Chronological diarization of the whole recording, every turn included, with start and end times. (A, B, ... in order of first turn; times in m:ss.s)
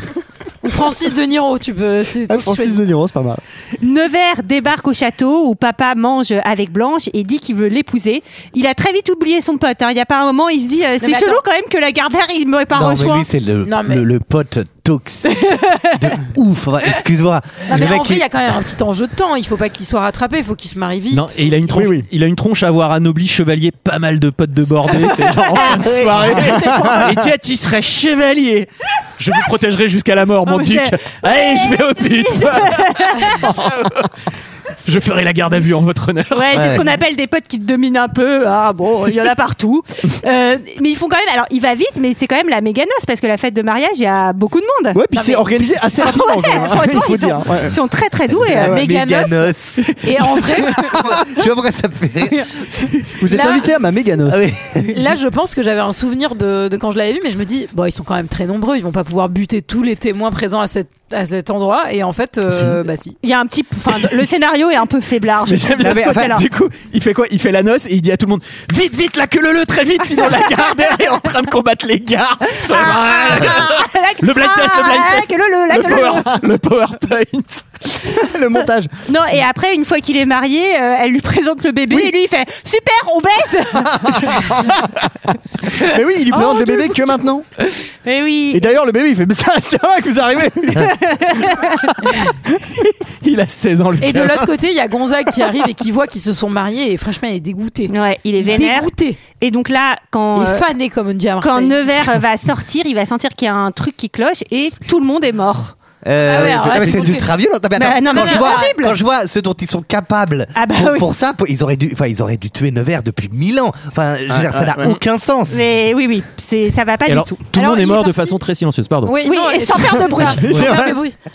0:00.6-0:02.8 A
0:02.3-0:03.4 B
0:03.8-0:13.3 C
0:11.0-0:11.4 A
0:12.7-0:18.2 D
0:13.6-0:14.0 A
0:15.5-0:15.9 C
0:17.7-0:21.3 A
0:21.1-0:34.1 E
0:21.7-0:22.1 B
0:25.8-0:26.4 D
0:26.3-0:27.2 B
0:30.5-0:30.9 C
0:31.5-0:33.4 C
0:34.8-0:36.8 E
0:36.3-0:45.4 C
0:36.5-0:36.8 D
0:44.9-0:47.8 B
0:46.0-0:48.7 C
0:48.5-0:48.8 B
0:48.6-0:52.9 D
0:48.7-0:50.8 A
0:50.8-0:51.1 B
0:53.2-0:54.5 B
0:53.3-0:53.7 A
0:54.2-0:55.0 D
0:54.9-1:03.2 A
1:02.5-1:02.8 B
1:03.2-1:06.4 C
1:05.5-1:17.8 E
1:05.8-1:06.4 D
1:12.7-1:16.4 C
1:18.1-1:18.9 B
1:19.1-1:24.6 C
1:23.8-1:24.9 B
1:25.7-1:28.7 C
1:25.7-1:27.4 B
1:28.5-1:31.5 B
1:30.8-1:32.1 C
1:33.2-1:34.5 E
1:34.0-1:39.2 A
1:37.9-1:40.6 C
1:40.3-1:41.8 A
1:41.4-1:45.7 C
1:46.0-1:55.6 D
1:46.2-1:47.3 A
1:47.8-1:48.9 C
1:48.0-1:48.7 A
1:50.6-1:51.1 C
1:54.3-1:54.9 B
1:55.5-1:57.4 C
1:57.0-1:59.2 E
1:57.5-1:58.3 A
1:59.0-2:01.2 A
1:59.2-2:00.4 C
1:59.7-2:01.0 B